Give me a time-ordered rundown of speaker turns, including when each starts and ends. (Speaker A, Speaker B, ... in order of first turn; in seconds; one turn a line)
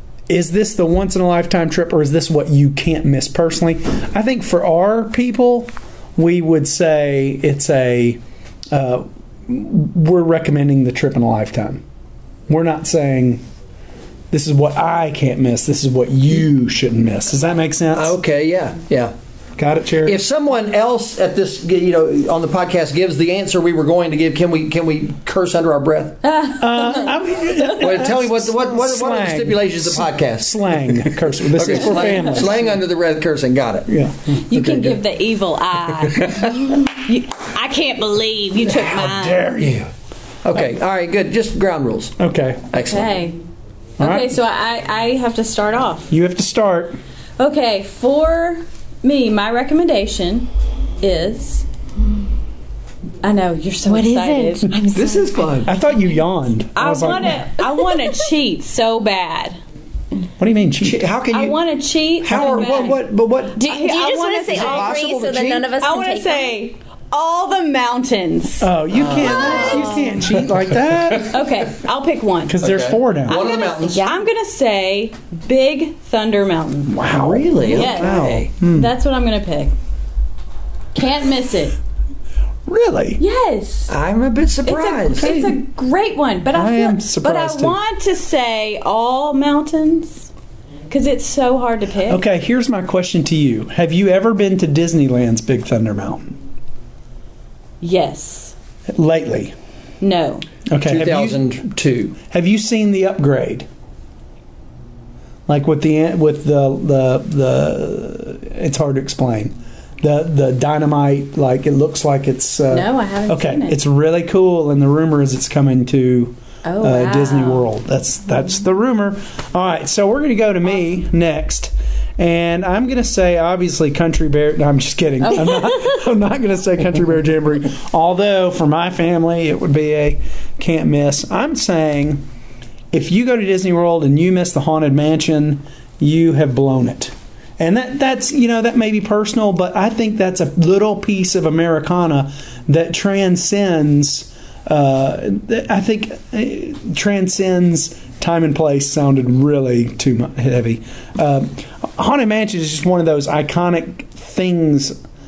Speaker A: 0.3-11.8
Speaker A: 12.5-13.4
Speaker A: 14.3-18.1
Speaker B: 17.9-19.1
Speaker A: 19.6-20.2
Speaker B: 20.0-26.2
Speaker C: 26.2-27.1
Speaker A: 26.6-32.7
Speaker B: 27.8-33.9
Speaker A: 33.9-34.4
Speaker C: 34.5-39.5
Speaker B: 34.5-35.0
Speaker B: 36.1-36.7
Speaker A: 38.7-39.8
Speaker B: 39.6-39.9
Speaker B: 40.4-42.2
Speaker A: 42.2-42.6
Speaker B: 42.7-43.1
Speaker C: 42.9-43.4
Speaker A: 44.0-44.3
Speaker C: 44.0-46.1
Speaker A: 46.1-47.0
Speaker C: 47.4-50.5
Speaker C: 51.0-51.6
Speaker C: 53.2-54.7
Speaker D: 53.8-55.6
Speaker B: 54.9-55.7
Speaker A: 55.6-57.5
Speaker C: 56.8-59.6
Speaker A: 60.4-61.0
Speaker B: 60.8-61.5
Speaker C: 61.3-63.0
Speaker B: 62.2-63.6
Speaker A: 62.3-62.6
Speaker D: 63.5-66.6
Speaker C: 63.6-65.0
Speaker B: 64.5-65.7
Speaker C: 65.8-68.7
Speaker A: 68.6-71.5
Speaker B: 68.9-70.3
Speaker C: 71.3-72.6
Speaker A: 72.5-73.4
Speaker B: 72.6-74.1
Speaker C: 73.3-76.9
Speaker D: 73.5-74.2
Speaker A: 76.9-78.9
Speaker B: 77.1-78.5
Speaker C: 77.7-79.7
Speaker C: 80.9-81.8
Speaker A: 82.7-83.2
Speaker C: 83.2-83.9
Speaker B: 83.9-85.4
Speaker C: 84.6-90.3
Speaker A: 85.2-85.5
Speaker A: 86.5-87.8
Speaker C: 90.9-92.2
Speaker A: 92.1-96.4
Speaker C: 97.8-98.5
Speaker A: 98.9-99.5
Speaker C: 100.0-100.5
Speaker A: 100.7-101.4
Speaker B: 100.8-102.2
Speaker A: 102.3-103.7
Speaker A: 105.5-132.2
Speaker C: 112.7-113.8
Speaker C: 116.6-117.7
Speaker C: 125.2-125.9
Speaker A: 132.9-154.9